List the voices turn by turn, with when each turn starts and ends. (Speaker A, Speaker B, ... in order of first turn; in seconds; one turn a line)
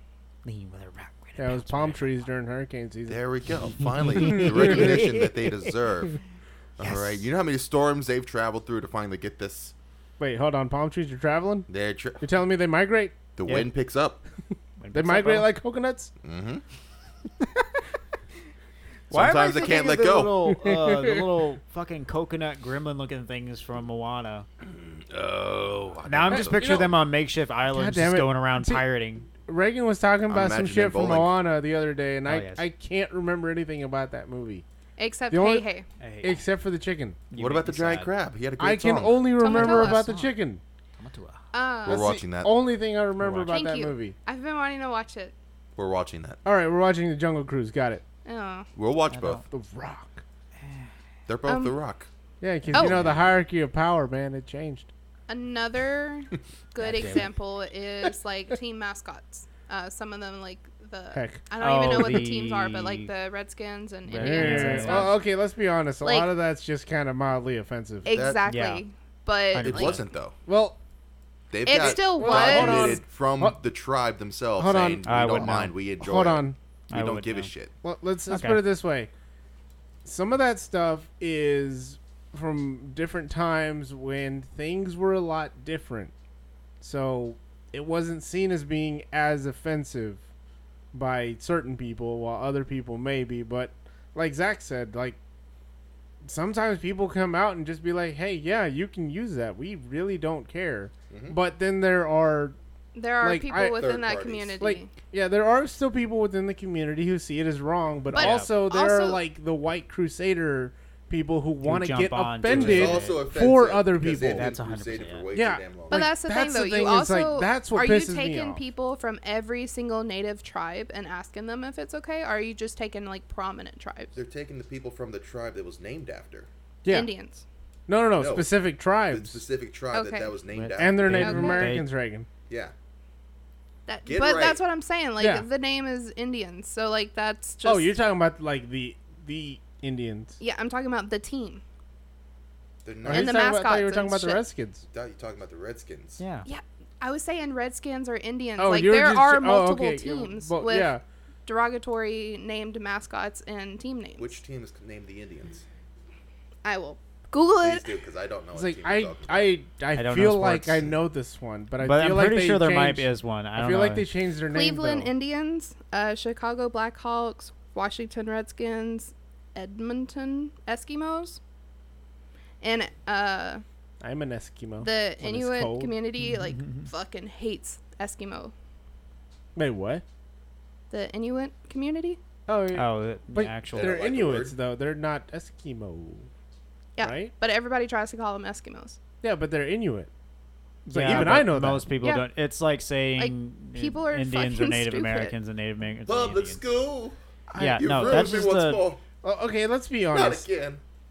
Speaker A: 0.4-2.2
Speaker B: 1.4-3.2
Speaker C: 3.1-6.2
Speaker A: 3.8-5.7
Speaker B: 4.3-4.9
Speaker C: 6.8-9.7
Speaker A: 6.8-7.3
Speaker B: 10.2-11.7
Speaker C: 11.7-12.2
Speaker B: 12.2-13.2
Speaker C: 13.4-14.2
Speaker A: 13.4-13.7
Speaker A: 14.8-15.5
Speaker B: 14.9-16.1
Speaker C: 16.2-16.6
Speaker C: 19.1-20.5
Speaker A: 19.1-24.5
Speaker B: 20.6-21.2
Speaker C: 24.6-26.9
Speaker A: 26.0-29.3
Speaker B: 26.3-26.9
Speaker B: 27.7-28.9
Speaker B: 29.4-34.6
Speaker C: 30.3-31.4
Speaker A: 32.2-32.6
Speaker D: 35.0-35.9
Speaker B: 35.3-35.7
Speaker A: 36.0-36.4
Speaker B: 36.2-37.2
Speaker A: 37.3-38.1
Speaker C: 37.4-39.3
Speaker B: 38.6-40.6
Speaker D: 39.4-40.0
Speaker A: 39.5-40.3
Speaker A: 41.0-41.4
Speaker D: 41.5-42.1
Speaker C: 41.9-42.5
Speaker B: 41.9-44.1
Speaker A: 43.2-43.5
Speaker D: 43.5-45.3
Speaker C: 45.8-46.4
Speaker B: 46.4-48.0
Speaker D: 48.2-48.7
Speaker C: 48.7-49.4
Speaker A: 49.1-49.4
Speaker B: 49.5-50.2
Speaker A: 50.6-50.9
Speaker C: 51.3-52.1
Speaker D: 51.5-51.7
Speaker B: 52.4-54.9
Speaker D: 52.7-53.0
Speaker A: 52.8-53.2
Speaker D: 55.3-65.2
Speaker A: 56.8-57.3
Speaker B: 61.1-61.4
Speaker A: 61.6-63.1
Speaker A: 64.1-65.1
Speaker B: 64.2-68.1
Speaker D: 66.0-66.3
Speaker D: 68.0-70.0
Speaker C: 68.1-68.4
Speaker A: 68.5-68.8
Speaker A: 69.5-70.0
Speaker C: 69.5-70.3
Speaker B: 70.5-70.8
Speaker C: 71.5-77.7
Speaker D: 71.6-73.0
Speaker B: 71.8-73.6
Speaker B: 74.6-76.6
Speaker A: 75.0-75.7
Speaker A: 76.9-77.5
Speaker B: 77.8-79.1
Speaker A: 78.3-78.6
Speaker B: 80.0-86.1
Speaker B: 86.8-90.2
Speaker B: 90.9-95.2
Speaker B: 96.2-102.6
Speaker C: 101.1-101.4
Speaker D: 102.9-104.9
Speaker B: 103.2-103.8
Speaker C: 103.8-104.5
Speaker B: 104.6-114.5
Speaker A: 108.1-108.5
Speaker D: 108.1-109.2
Speaker A: 111.6-113.2
Speaker C: 112.5-116.0
Speaker A: 114.1-115.3
Speaker B: 115.3-118.6
Speaker D: 115.9-124.1
Speaker C: 124.1-126.5
Speaker D: 126.9-127.4
Speaker B: 127.9-129.4
Speaker C: 128.2-128.6
Speaker C: 129.1-131.3
Speaker D: 129.9-130.3
Speaker A: 130.5-131.9
Speaker B: 130.8-132.3
Speaker D: 131.1-131.7
Speaker D: 133.9-138.0
Speaker C: 134.0-134.6
Speaker B: 135.2-135.4
Speaker B: 137.6-140.3
Speaker D: 140.4-141.6
Speaker C: 142.8-143.4
Speaker B: 143.0-144.8
Speaker D: 143.1-144.4
Speaker C: 144.9-146.2
Speaker A: 146.2-146.5
Speaker D: 146.4-150.9
Speaker B: 148.6-151.0
Speaker D: 151.4-154.4
Speaker C: 154.2-155.6
Speaker D: 156.6-158.0
Speaker C: 157.6-159.5
Speaker B: 158.5-165.1
Speaker A: 159.9-160.9
Speaker A: 161.8-164.1
Speaker D: 164.5-171.4
Speaker D: 172.6-173.6
Speaker B: 174.0-175.9
Speaker D: 174.8-178.5
Speaker A: 176.2-176.9
Speaker B: 179.6-180.0
Speaker D: 180.9-182.2
Speaker B: 182.5-186.3
Speaker A: 182.7-184.0
Speaker C: 183.7-184.6
Speaker D: 186.9-189.0
Speaker B: 187.0-187.3
Speaker B: 189.2-190.1
Speaker A: 190.9-196.6
Speaker B: 190.9-191.9
Speaker D: 193.2-195.3
Speaker C: 196.1-199.0
Speaker A: 197.6-198.8
Speaker B: 199.2-200.5
Speaker C: 200.1-200.8